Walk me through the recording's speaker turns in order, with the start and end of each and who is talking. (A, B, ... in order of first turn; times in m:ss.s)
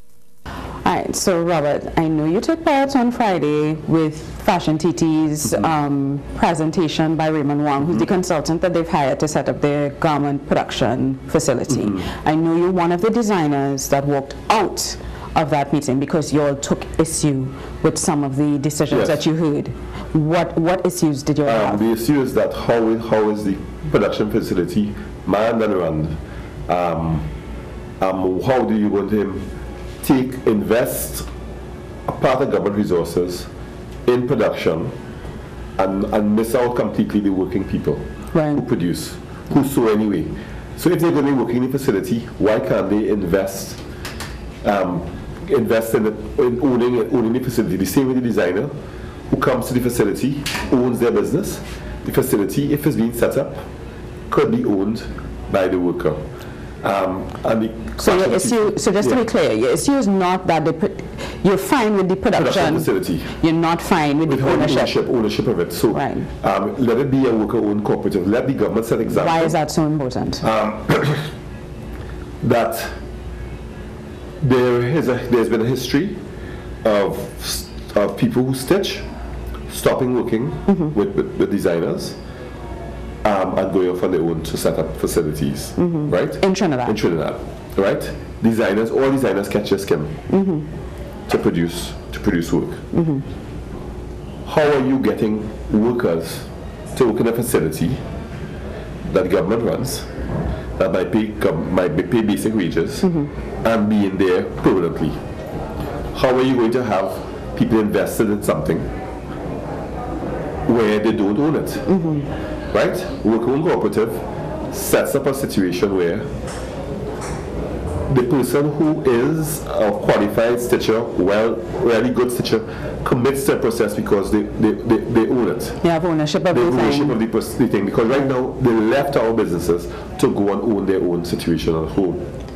0:00.8-0:21.8 A
0:11.7-0:12.1 B
0:18.9-0:19.2 B
0:21.4-0:27.3 B
0:28.0-0:29.5 B
0:30.0-0:31.3 B
0:32.1-0:33.5 B
0:34.1-0:34.9 B
0:35.8-0:43.8 B
0:38.3-0:38.6 A
0:44.6-0:48.7 B
0:49.3-0:53.7 B
0:54.3-0:56.2 B
0:56.8-0:59.2 B
0:58.0-1:04.9 A
1:02.3-1:03.3 B
1:04.3-1:09.6 B
1:05.9-1:06.3 A
1:09.1-1:10.4 A
1:10.4-1:11.3 B
1:12.4-1:13.0 B
1:14.4-1:16.2 B
1:16.8-1:19.1 B
1:19.7-1:22.2 B
1:20.7-1:21.0 A
1:23.2-1:30.2 B
1:25.8-1:27.0 A
1:30.3-1:30.7 A
1:31.3-1:32.8 B
1:32.9-1:33.3 A
1:34.5-1:38.0 B
1:39.1-1:40.1 B
1:40.8-1:43.1 B
1:43.0-1:43.3 A
1:43.6-1:45.2 B
1:46.1-1:48.9 B
1:50.7-1:51.9 B
1:51.9-1:52.3 A
1:52.7-1:56.3 B
1:58.1-2:05.8 B
2:05.8-2:07.2 A
2:06.5-2:12.2 B